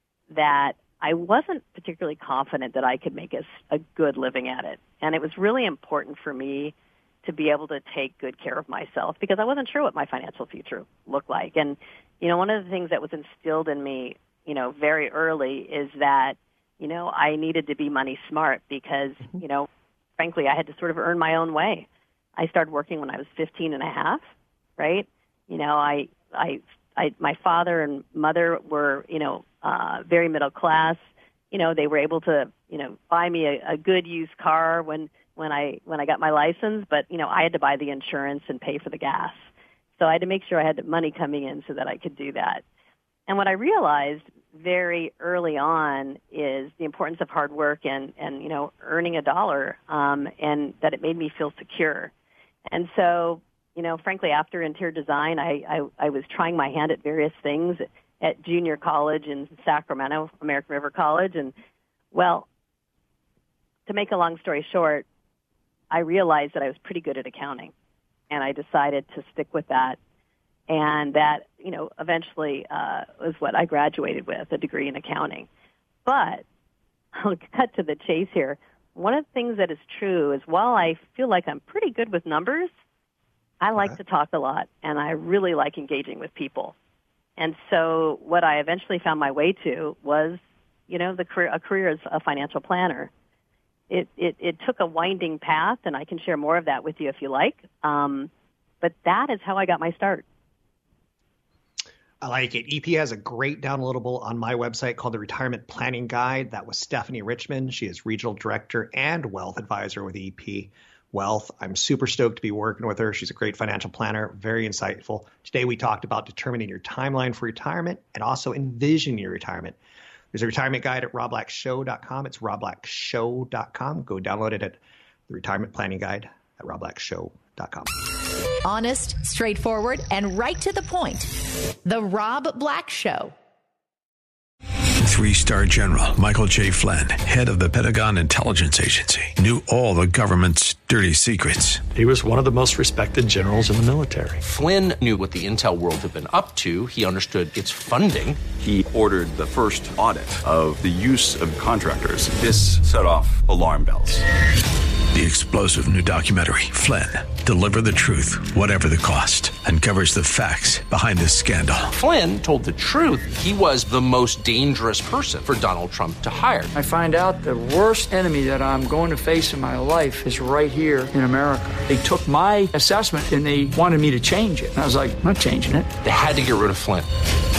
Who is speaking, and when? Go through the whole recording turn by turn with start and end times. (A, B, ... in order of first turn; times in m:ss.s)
0:00.3-0:24.2 A
0:24.8-0:42.6 A
0:43.3-0:52.1 A
0:52.7-1:01.5 A
1:02.1-1:02.5 A
1:03.9-1:05.1 A
1:05.9-1:07.7 A
1:08.3-1:10.0 A
1:10.7-1:15.5 A
1:16.0-1:16.4 A
1:17.1-1:22.7 A
1:23.6-1:26.7 A
1:27.4-1:33.1 A
1:33.9-1:38.3 A
1:38.8-1:40.3 A
1:42.2-1:59.8 B
2:00.3-2:07.9 B
2:08.6-2:11.3 C
2:11.8-2:13.4 C
2:15.0-2:21.8 D
2:21.9-2:24.4 E
2:24.4-2:28.5 F
2:28.5-2:34.2 G
2:35.1-2:41.9 D
2:41.9-2:46.7 F
2:46.7-2:55.9 H
2:56.0-2:57.1 F